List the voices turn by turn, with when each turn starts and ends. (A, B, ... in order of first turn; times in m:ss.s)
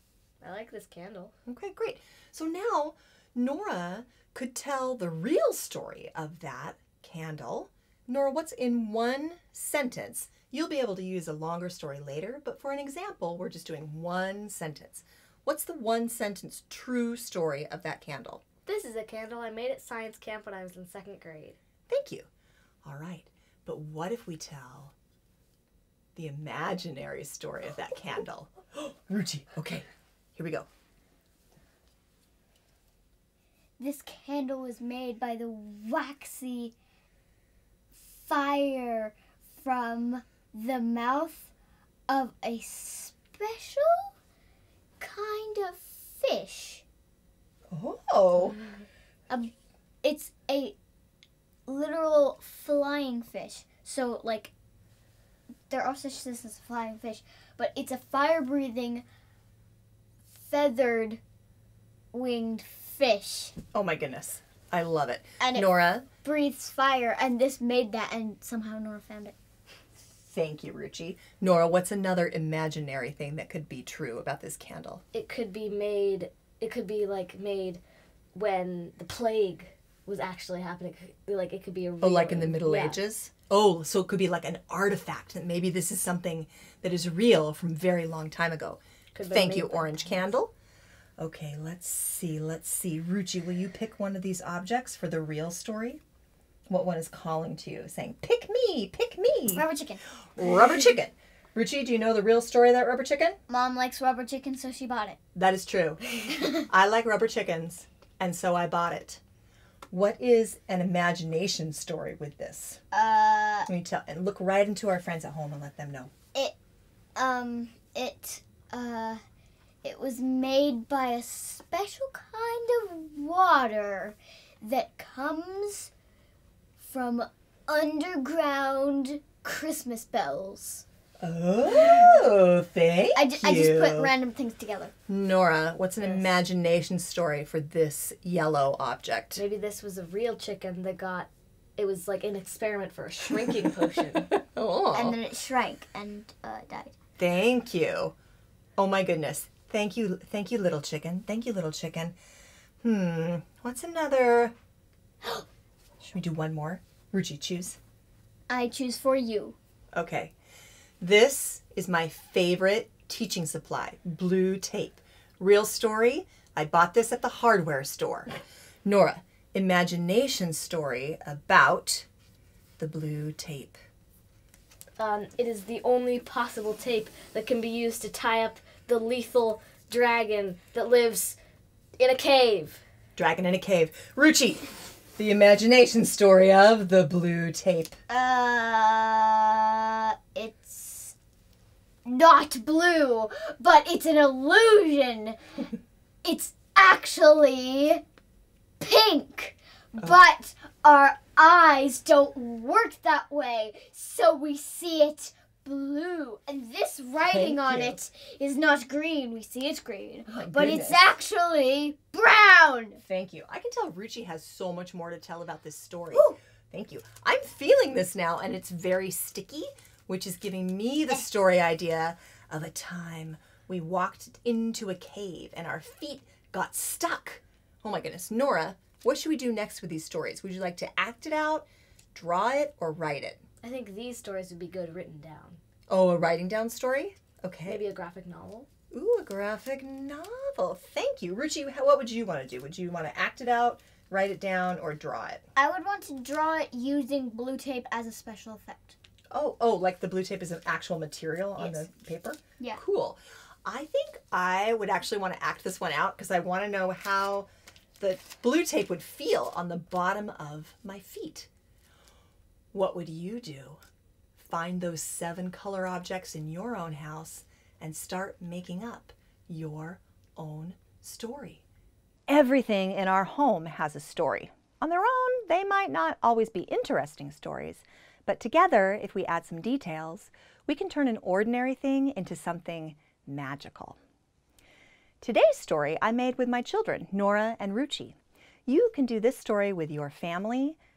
0:00.4-0:01.3 A
0:01.4-0:18.4 B
0:18.6-0:21.6 A
0:21.9-0:22.3 B
0:22.8-0:24.9 B
0:26.1-0:30.7 B
0:33.8-0:36.7 C
0:38.0-0:41.5 C
0:42.1-0:44.1 C
0:45.0-0:46.8 C
0:47.7-0:48.6 B
0:49.3-0:50.8 C
0:51.7-0:54.5 C
0:55.7-0:59.0 C
1:00.3-1:01.2 C
1:02.1-1:03.5 C
1:03.7-1:06.1 B
1:05.4-1:09.3 C
1:10.2-1:15.0 B
1:15.1-1:17.8 A
1:18.3-1:23.0 A
1:22.0-1:30.5 B
1:29.1-1:30.2 A
1:31.2-1:36.0 B
1:36.7-1:39.6 B
1:39.5-1:40.0 C
1:40.4-1:43.4 B
1:43.5-1:45.2 C
1:45.3-1:49.2 B
1:46.3-1:46.6 C
1:49.9-1:52.8 B
1:52.9-1:53.7 C
1:53.7-1:56.1 B
1:57.1-1:59.2 C
1:59.8-2:05.9 C
2:06.8-2:10.8 C
2:11.2-2:14.1 B
2:11.6-2:12.2 C
2:13.1-2:14.9 C
2:15.1-2:19.4 B
2:16.0-2:16.3 A
2:19.3-2:24.3 A
2:23.3-2:25.2 B
2:24.9-2:26.9 C
2:27.2-2:28.1 B
2:28.8-2:32.2 B
2:32.8-2:34.5 B
2:36.0-2:37.8 B
2:38.5-2:39.6 C
2:39.9-2:40.3 B
2:41.0-2:52.1 B
2:52.8-2:53.8 B
2:55.0-3:01.4 A
3:02.0-3:02.8 A
3:03.2-3:08.0 B
3:08.1-3:11.1 C
3:12.0-3:15.4 C
3:16.2-3:18.0 C
3:18.8-3:33.0 C
3:27.3-3:28.0 B
3:30.3-3:31.1 B
3:33.0-3:53.4 B
3:53.6-3:55.6 A
3:55.9-3:57.8 B
3:57.6-3:58.7 A
3:58.9-4:05.4 B
4:05.5-4:09.0 C
4:09.3-4:21.5 B
4:11.6-4:11.9 C
4:22.7-4:23.8 B
4:24.4-4:31.6 B
4:32.3-4:44.0 B
4:45.2-4:50.8 B